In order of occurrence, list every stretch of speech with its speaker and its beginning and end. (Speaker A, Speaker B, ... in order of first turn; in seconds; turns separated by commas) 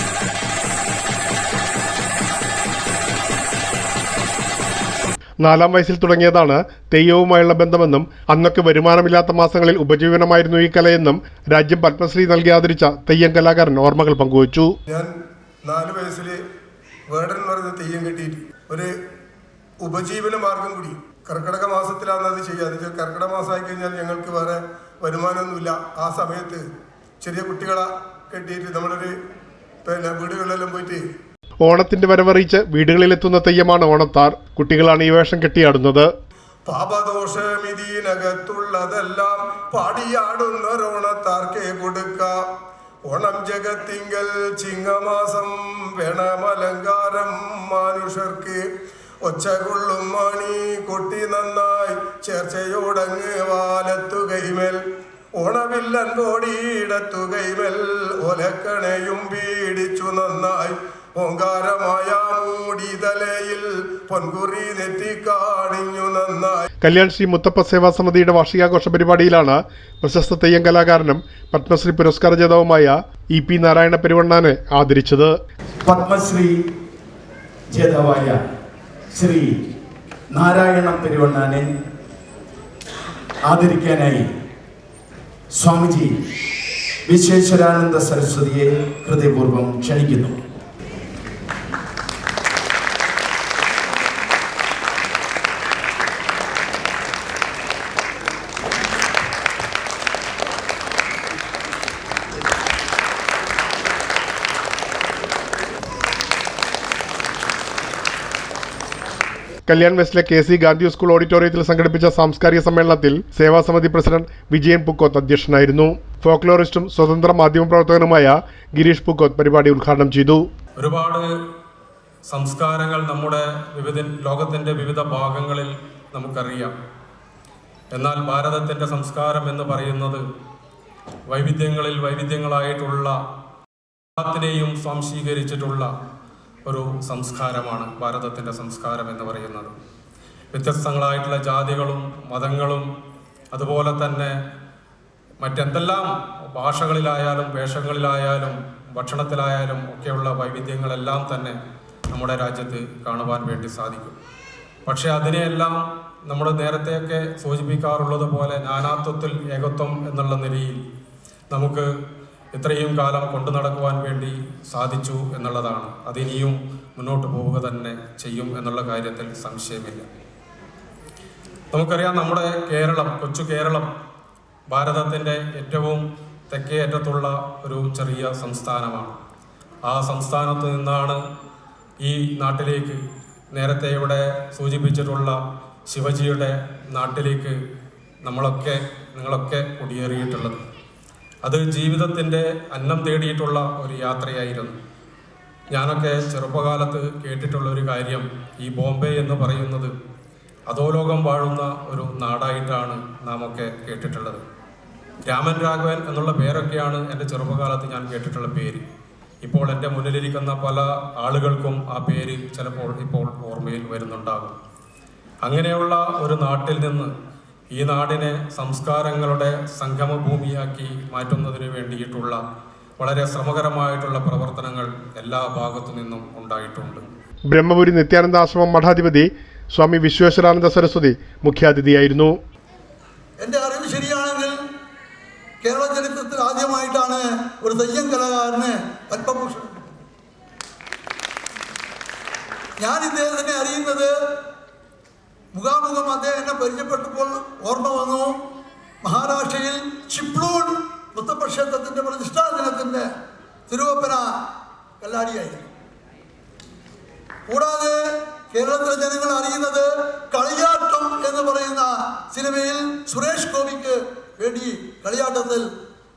Speaker A: 5.4-14.7, Speaker B: 15.6-16.4, Speaker B: 17.1-18.9, Speaker B: 19.8-26.6, Speaker B: 27.2-29.1, Speaker B: 29.8-31.0, Speaker A: 31.6-36.1, Speaker B: 36.6-42.3, Speaker B: 43.0-48.6, Speaker B: 49.2-54.8, Speaker B: 55.4-66.7, Speaker A: 66.8-75.3, Speaker C: 75.8-76.6, Speaker C: 77.7-78.4, Speaker C: 79.1-79.6, Speaker C: 80.3-81.7, Speaker C: 83.4-84.3, Speaker C: 85.5-86.2, Speaker C: 87.0-90.4, Speaker A: 109.7-120.5, Speaker D: 120.8-121.3, Speaker D: 122.2-126.7, Speaker D: 127.9-130.2, Speaker D: 131.3-133.2, Speaker D: 134.2-135.9, Speaker D: 136.7-139.7, Speaker D: 140.5-142.9, Speaker D: 143.5-144.4, Speaker D: 145.4-151.6, Speaker D: 152.1-154.2, Speaker D: 154.8-160.8, Speaker D: 161.5-161.9, Speaker D: 162.5-170.1, Speaker D: 171.7-173.9, Speaker D: 174.7-179.2, Speaker D: 179.9-181.2, Speaker D: 182.0-183.0, Speaker D: 183.5-187.6, Speaker D: 188.2-190.6, Speaker D: 191.4-194.8, Speaker D: 195.7-199.9, Speaker D: 200.7-204.4, Speaker D: 205.2-208.8, Speaker D: 209.4-214.5, Speaker D: 215.4-217.1, Speaker D: 217.7-222.4, Speaker D: 223.0-227.0, Speaker A: 227.5-232.3, Speaker E: 233.4-234.5, Speaker E: 235.6-240.0, Speaker E: 242.8-244.1, Speaker E: 245.5-248.4, Speaker E: 249.0-253.1, Speaker E: 253.7-254.3, Speaker E: 255.0-255.6, Speaker E: 257.5-265.6